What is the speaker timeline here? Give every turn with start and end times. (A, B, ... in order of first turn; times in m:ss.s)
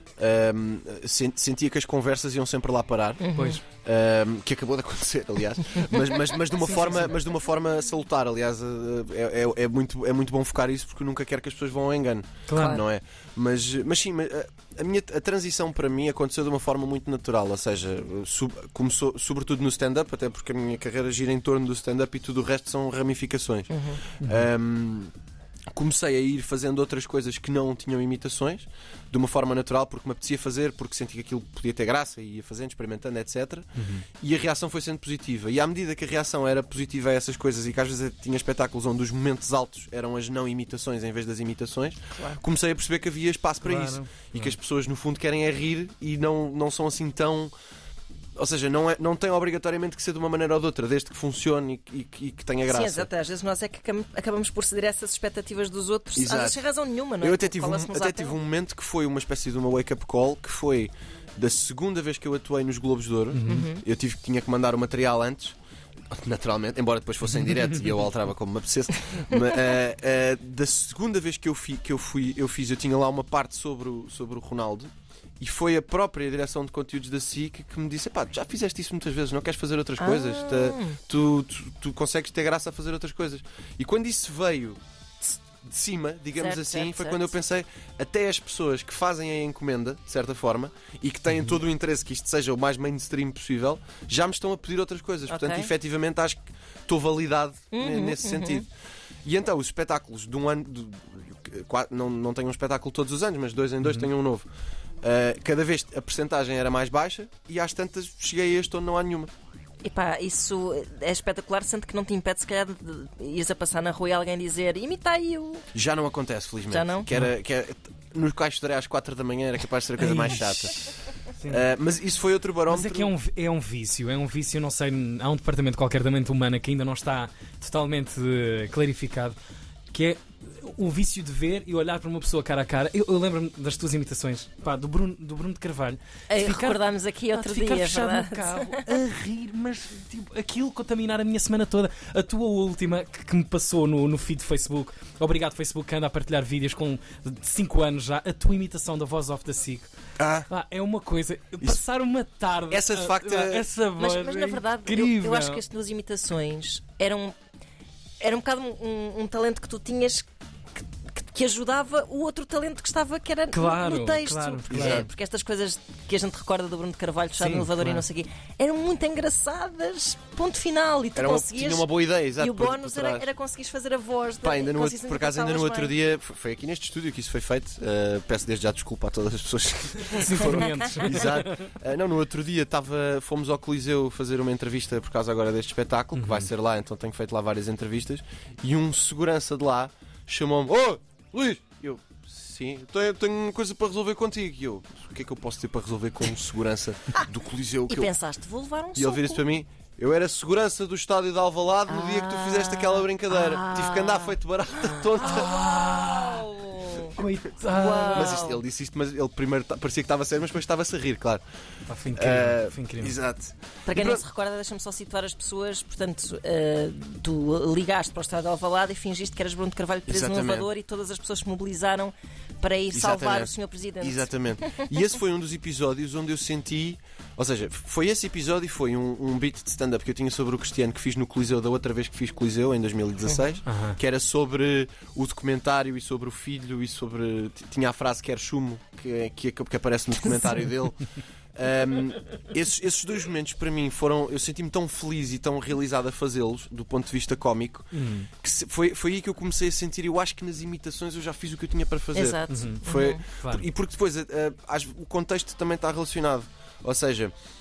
0:00.2-0:25.1 A
0:03.2-0:03.6 B
0:03.4-0:03.6 C
0:06.6-0:07.2 C
0:12.5-0:12.8 C
0:12.6-0:12.8 B
0:23.7-0:24.0 B
0:24.2-0:24.5 C
0:25.7-0:47.5 A
0:33.8-0:34.0 C
0:42.1-0:42.4 B
0:43.6-0:44.6 C
0:48.4-0:53.1 A
0:52.7-0:58.4 B
0:56.2-0:56.6 A
0:57.2-1:05.6 A
1:03.3-1:03.7 C
1:03.5-1:03.8 B
1:06.1-1:38.7 A
1:20.0-1:21.0 B
1:26.4-1:27.4 B
1:35.3-1:35.7 B
1:37.7-1:38.6 B
1:39.2-1:44.4 A
1:45.0-1:49.3 A
1:49.8-1:55.7 B
1:55.7-2:03.1 A
1:56.7-1:57.1 B
2:00.0-2:00.7 C
2:01.4-2:01.6 C
2:02.7-2:09.4 C
2:09.9-2:29.9 C
2:16.3-2:18.9 B
2:30.2-2:30.5 A
2:30.5-2:35.6 C
2:32.7-2:33.6 A
2:34.0-2:37.4 B
2:38.2-2:55.9 B
2:43.5-2:45.1 C
2:44.7-2:45.1 A
2:47.4-2:48.0 C
2:51.2-2:53.3 A
2:54.4-3:18.1 A
3:00.0-3:01.7 C
3:06.2-3:06.5 C
3:17.9-3:19.4 B
3:19.0-3:25.6 A
3:21.9-3:24.4 B
3:25.0-3:28.6 B
3:25.0-3:26.5 C
3:27.1-3:28.4 C
3:28.1-3:31.4 A
3:31.9-3:33.1 C
3:32.1-3:34.2 A
3:33.8-3:44.9 B
3:40.1-3:40.7 A
3:42.9-4:01.0 A
3:53.7-3:54.0 C
4:01.6-4:17.3 A
4:07.9-4:08.3 C
4:12.1-4:13.2 B
4:12.5-4:13.7 C